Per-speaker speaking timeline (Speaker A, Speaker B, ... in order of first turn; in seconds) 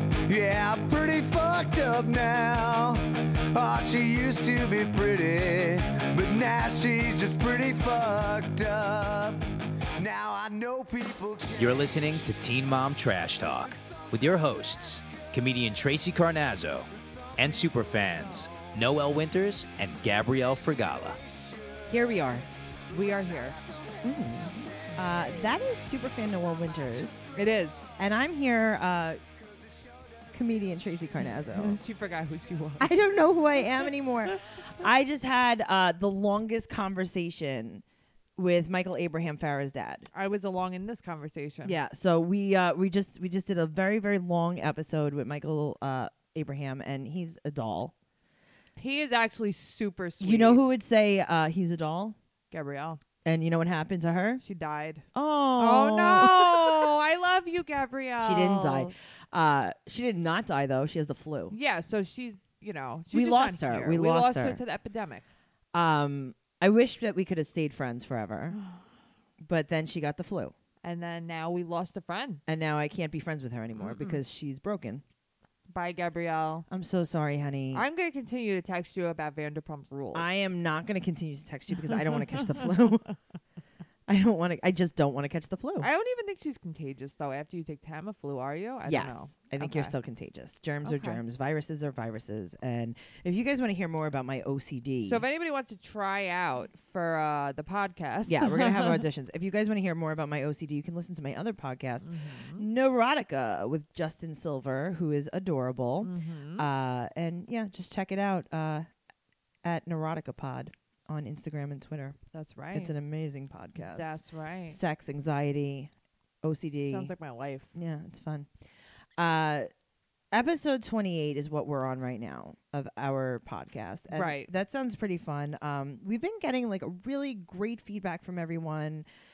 Speaker A: 0.3-12.2
Speaker B: 11.6-21.2
Speaker C: 21.9-22.5, 24.0-27.2, 28.0-29.2, 30.3-31.8, 32.8-37.8, 38.4-40.1, 41.6-47.9, 50.2-52.2, 53.2-54.4, 55.1-56.9, 58.2-61.5, 63.1-64.6, 65.7-68.6, 69.4-70.5, 72.5-75.0, 76.7-77.8, 80.1-83.1, 84.1-85.9, 88.9-95.2, 98.3-108.9, 109.7-112.2, 112.7-114.2, 114.7-115.9, 116.4-117.1, 117.7-118.5, 119.2-119.7, 120.3-129.1
Speaker D: 22.9-23.6, 27.4-27.9, 31.4-33.0, 40.1-41.8, 48.8-50.6, 52.5-53.0, 54.4-55.0, 55.6-58.9, 61.5-65.2, 70.8-72.4, 73.8-74.2, 75.7-76.7, 77.7-80.5, 85.8-89.9, 90.8-91.2, 95.0-99.0, 102.0-102.7, 106.0-106.7, 112.3-112.9, 113.8-114.8, 116.9-117.7, 124.1-124.5